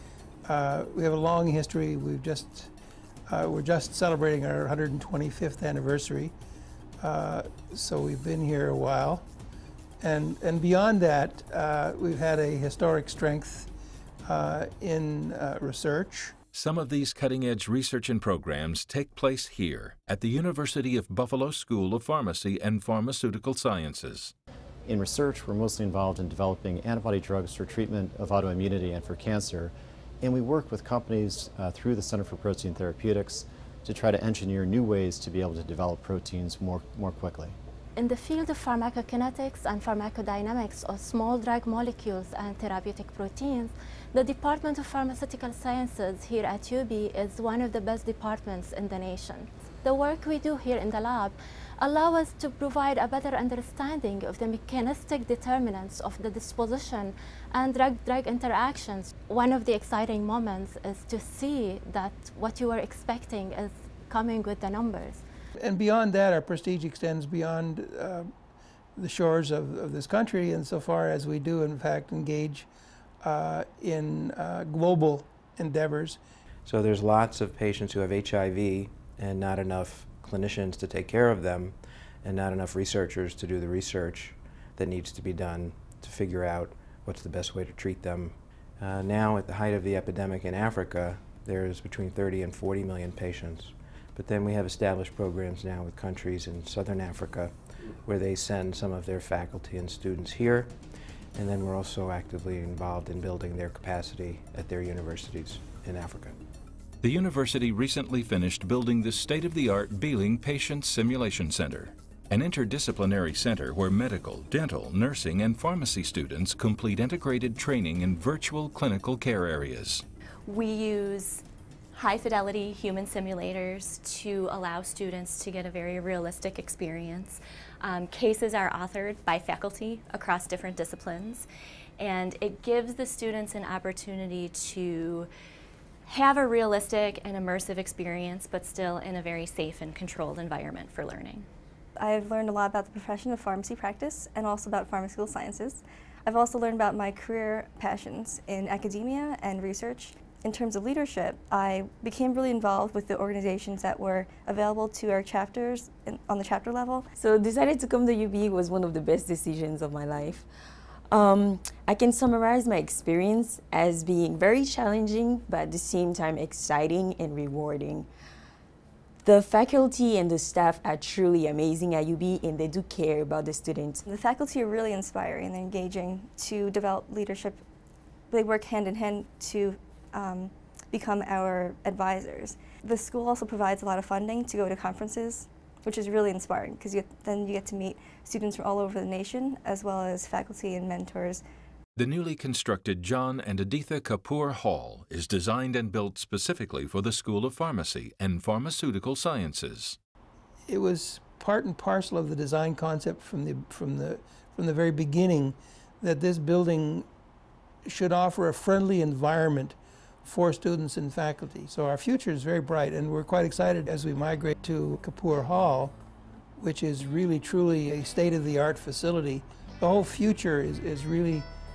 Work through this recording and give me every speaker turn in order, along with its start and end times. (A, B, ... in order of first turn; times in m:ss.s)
0:00.4-0:02.7 A
0:03.3-0:06.3 A
0:07.0-0:09.3 A
0:10.0-0:13.7 A
0:14.2-0:16.3 A
0:16.5-0:24.3 B
0:24.9-0:37.6 C
0:38.0-1:05.2 D
1:05.6-1:08.3 A
1:09.0-1:12.7 A
1:13.2-1:16.2 A
1:16.7-1:37.5 E
1:38.0-1:40.7 E
1:41.4-1:46.4 E
1:47.0-2:00.0 B
2:00.5-2:01.4 F
2:01.9-2:11.5 F
2:12.0-2:15.3 F
2:16.1-2:21.5 F
2:22.0-2:37.0 G
2:37.2-2:40.5 H
2:41.1-2:48.1 H
2:49.2-2:54.0 H
2:54.3-2:57.6 G
2:58.3-3:11.4 G
3:12.0-3:20.0 B
3:20.7-3:27.1 A
3:27.9-3:36.0 A
3:36.6-3:41.5 A